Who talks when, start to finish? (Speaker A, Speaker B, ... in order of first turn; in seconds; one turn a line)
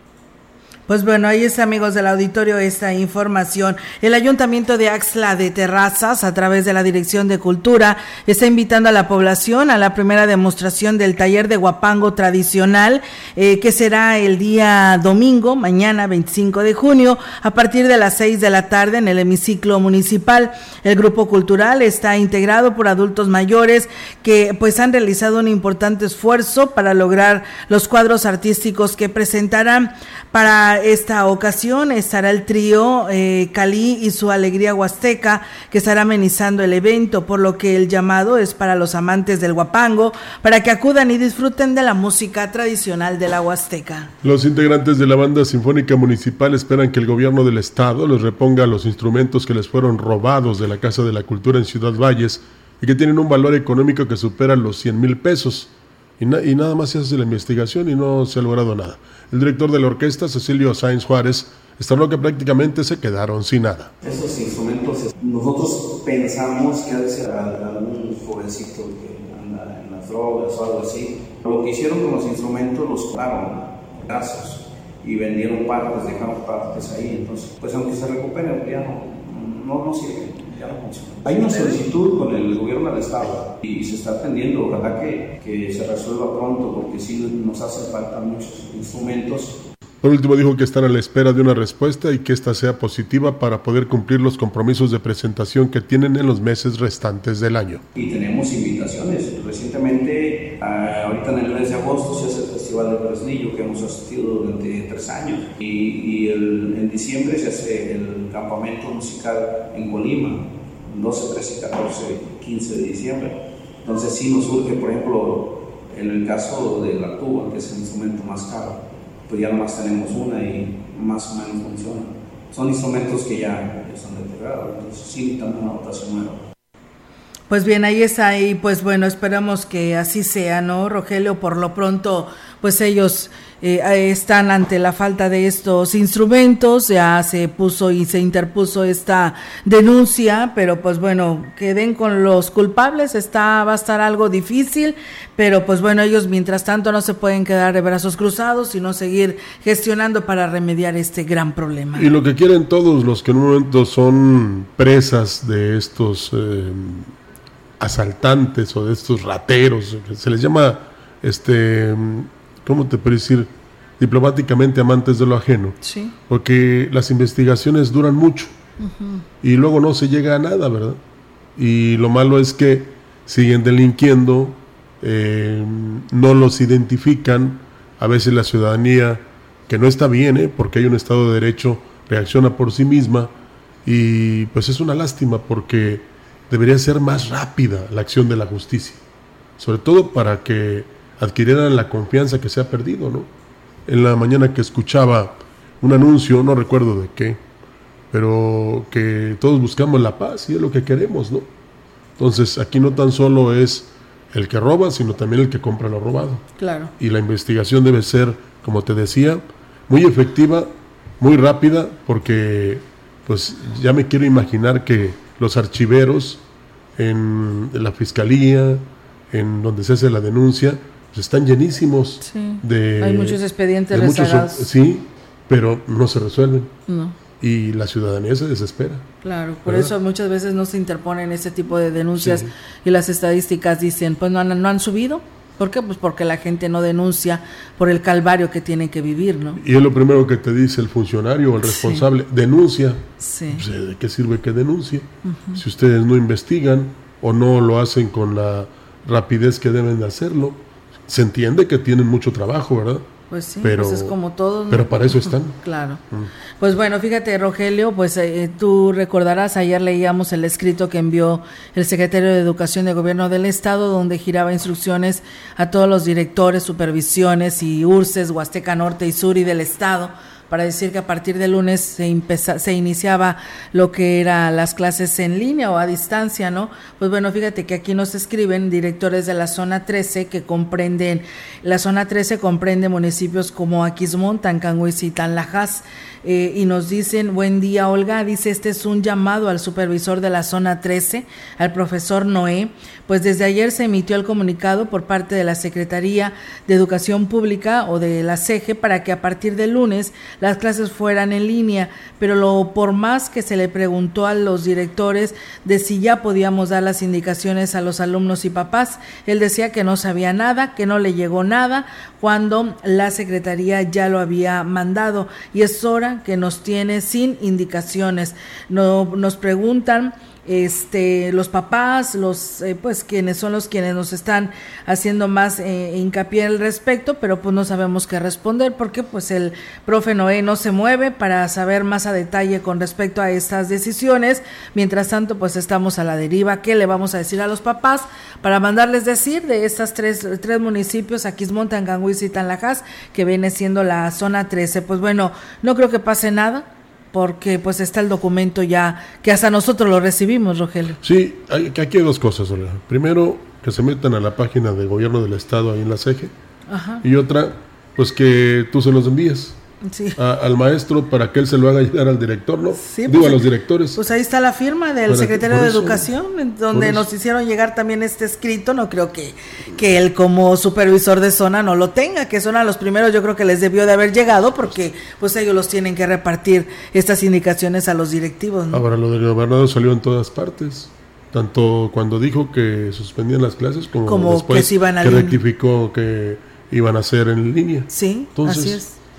Speaker A: 0.9-44.1
Speaker B: 44.2-63.9
Speaker C: 64.0-89.6
Speaker B: 90.0-97.8
Speaker C: 97.9-126.4
Speaker A: 127.5-152.1
Speaker B: 151.9-157.1
Speaker B: 157.8-165.8
Speaker A: 165.8-166.2
Speaker B: 166.3-168.5
Speaker A: 168.8-169.2
Speaker B: 169.4-171.0
Speaker B: 171.6-183.3
Speaker B: 183.8-189.0
Speaker B: 189.6-193.3
Speaker B: 193.9-197.4
Speaker B: 198.1-201.5
Speaker B: 202.2-206.4
Speaker A: 206.6-206.9
Speaker B: 207.0-216.4
Speaker B: 217.0-223.4
Speaker A: 222.2-224.6
Speaker B: 223.9-226.7
Speaker A: 226.9-227.1
Speaker B: 227.4-229.1
Speaker A: 229.2-239.6
Speaker B: 229.7-229.9
Speaker B: 232.2-232.5
Speaker B: 239.6-253.1
Speaker A: 241.6-242.0
Speaker A: 243.2-243.6
Speaker A: 245.2-245.6
Speaker A: 253.3-256.0
Speaker B: 253.6-254.1
Speaker B: 254.7-255.6
Speaker A: 256.6-351.0
Speaker B: 351.0-356.3
Speaker A: 356.7-357.0
Speaker B: 357.0-359.6
Speaker A: 359.9-360.2
Speaker B: 360.2-364.0
Speaker A: 362.8-363.4
Speaker A: 363.9-378.8
Speaker B: 365.1-366.1
Speaker B: 366.7-367.1
Speaker B: 378.7-388.8
Speaker A: 384.1-385.4
Speaker A: 387.9-388.9